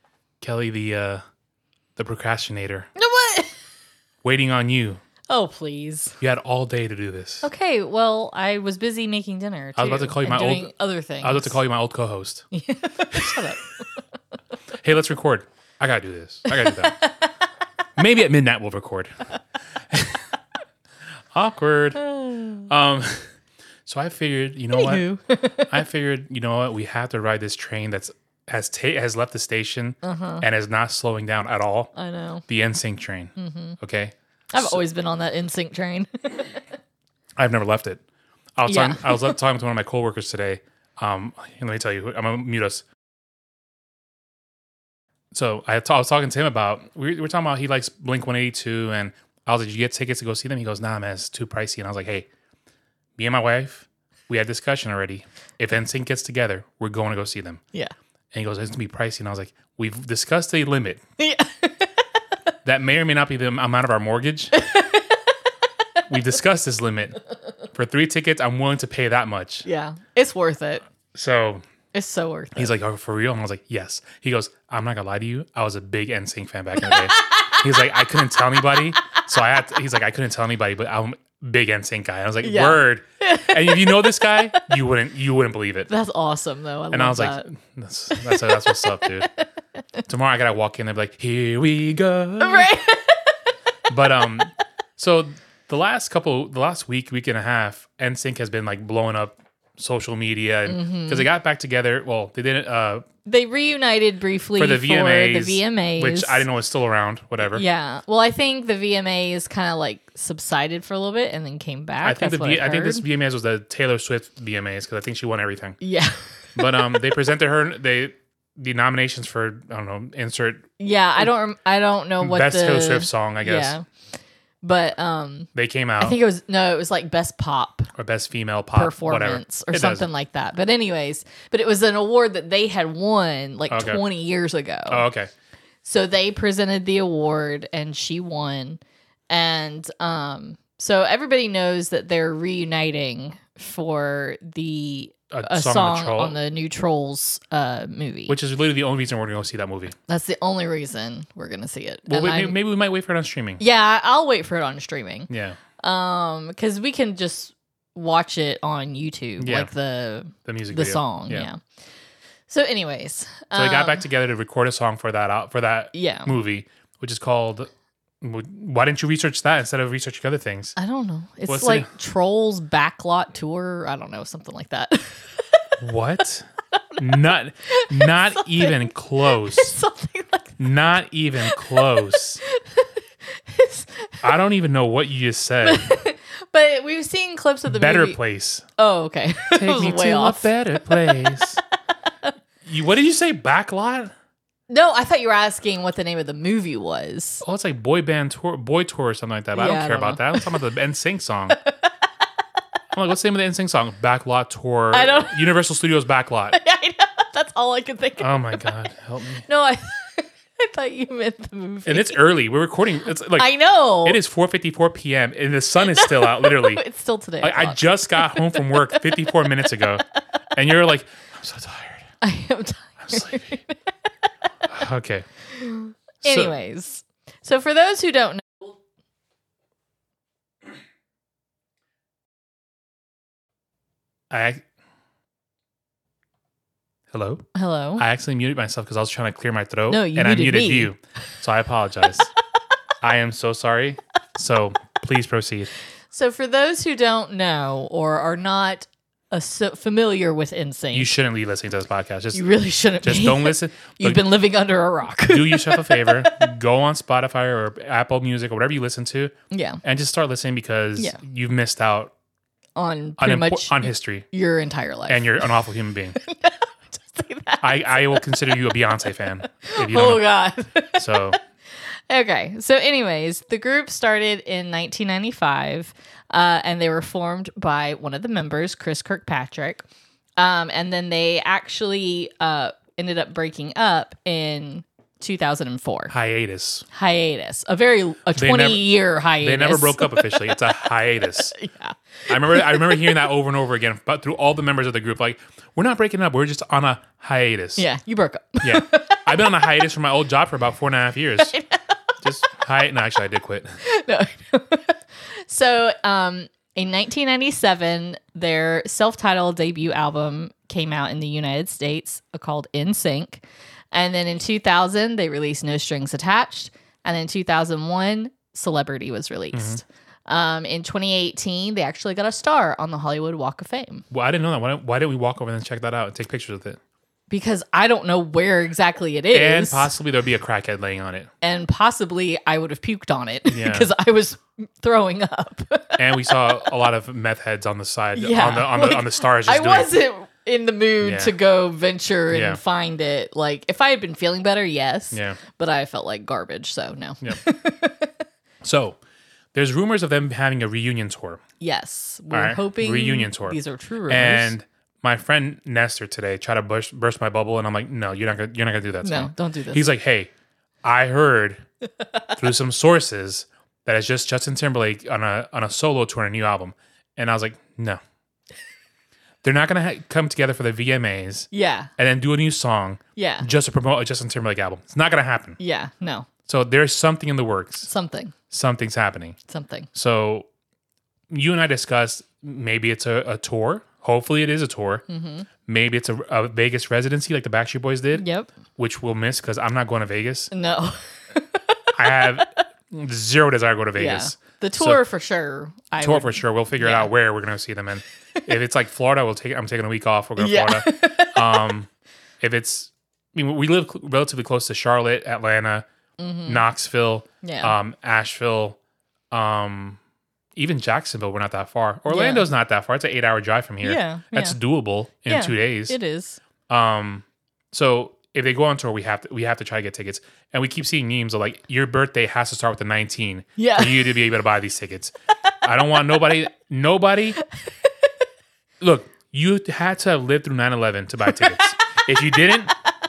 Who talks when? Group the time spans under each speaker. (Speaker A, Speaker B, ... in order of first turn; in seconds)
Speaker A: 0.4-1.2, 2.0-2.9, 4.2-5.0, 6.2-7.5, 9.8-10.7, 11.2-12.5, 14.8-17.1, 18.0-19.3, 19.9-20.3, 21.3-23.3, 23.9-25.1, 25.6-31.9, 32.5-34.8, 37.4-38.0, 38.6-42.9, 45.3-52.3, 53.2-57.6, 58.3-61.0, 62.6-64.6, 66.1-67.2, 67.7-69.7, 71.1-71.6, 72.5-85.9, 86.9-89.3, 90.1-92.7, 93.9-103.0, 104.6-107.6, 112.0-115.8, 116.5-120.7, 122.2-123.8, 125.5-126.2, 128.0-130.1, 133.7-134.0, 134.9-135.3, 145.3-146.4, 148.3-149.9, 152.1-153.6, 155.3-155.6, 159.4-159.7, 160.4-161.5, 163.5-167.7, 168.2-170.8, 171.5-171.9, 175.8-179.8, 180.6-182.4, 184.2-185.9, 187.7-188.6, 189.6-191.6, 192.6-194.1, 197.4-201.6, 202.9-206.6, 208.2-209.5, 211.8-213.5, 214.0-216.8, 217.4-222.1, 223.1-223.5, 224.7-225.3, 226.2-226.6, 234.3-234.6, 237.1-237.5, 238.0-242.3, 243.0-245.7, 250.9-252.5, 253.0-254.2, 255.2-262.1, 263.2-264.3, 265.1-266.2, 267.6-270.3, 270.9-271.4, 286.1-286.9, 288.4-291.6, 292.3-297.9, 298.6-301.6, 302.2-303.8, 319.5-319.8, 324.1-326.8, 329.3-331.3, 333.5-333.9, 336.0-339.9, 341.0-341.4, 342.3-342.6, 345.1-345.4, 348.6-349.0, 349.5-351.4, 352.3-360.3, 360.8-361.6, 362.3-368.0, 369.4-375.6, 376.5-377.9, 378.5-379.4, 379.9-380.5, 381.3-385.0, 385.7-390.5, 391.9-395.0, 396.0-401.9, 402.4-405.9, 406.5-408.8, 409.3-410.0, 410.6-416.0, 416.7-427.4, 428.8-432.7
Speaker B: 3.0-3.5, 5.3-6.2, 7.4-11.6, 12.5-14.0, 16.5-17.3, 22.0-22.7, 24.7-25.8, 30.0-30.4, 31.9-32.5, 33.4-33.8, 34.5-36.6, 38.7-39.4, 61.2-62.0, 64.5-65.3, 69.7-70.8, 71.9-72.7, 76.8-77.6, 82.4-84.6, 85.9-87.5, 88.1-89.4, 92.4-93.4, 100.7-101.3, 103.3-106.5, 107.5-113.0, 115.8-117.0, 120.8-123.8, 124.6-127.9, 128.8-135.1, 135.8-148.4, 150.1-152.6, 153.6-161.6, 162.5-164.1, 165.9-166.3, 170.8-175.8, 176.7-180.6, 181.4-184.3, 185.6-188.2, 188.8-191.4, 194.7-197.4, 199.6-200.5, 201.5-201.8, 204.9-205.6, 206.5-208.7, 209.4-212.3, 213.3-214.2, 215.9-219.8, 222.2-223.8, 225.5-228.7, 237.6-238.0, 239.9-240.9, 246.1-251.1, 252.3-256.5, 259.5-259.8, 262.8-265.6, 266.2-268.3, 269.6-279.8, 280.4-286.1, 286.9-290.6, 291.5-293.2, 297.8-299.6, 301.4-302.0, 303.8-324.1, 327.3-329.9, 331.4-336.6, 338.2-348.2, 351.6-354.5, 359.0-359.9, 371.5-371.9, 373.2-373.5, 375.6-376.3, 377.9-378.4, 379.5-379.9, 385.1-385.5, 388.1-388.5, 390.5-392.6, 394.0-397.1, 400.4-401.8, 406.2-406.6, 407.4-407.8, 412.1-412.5, 413.8-414.6, 415.3-416.4, 423.6-424.2, 427.6-428.0, 431.3-432.8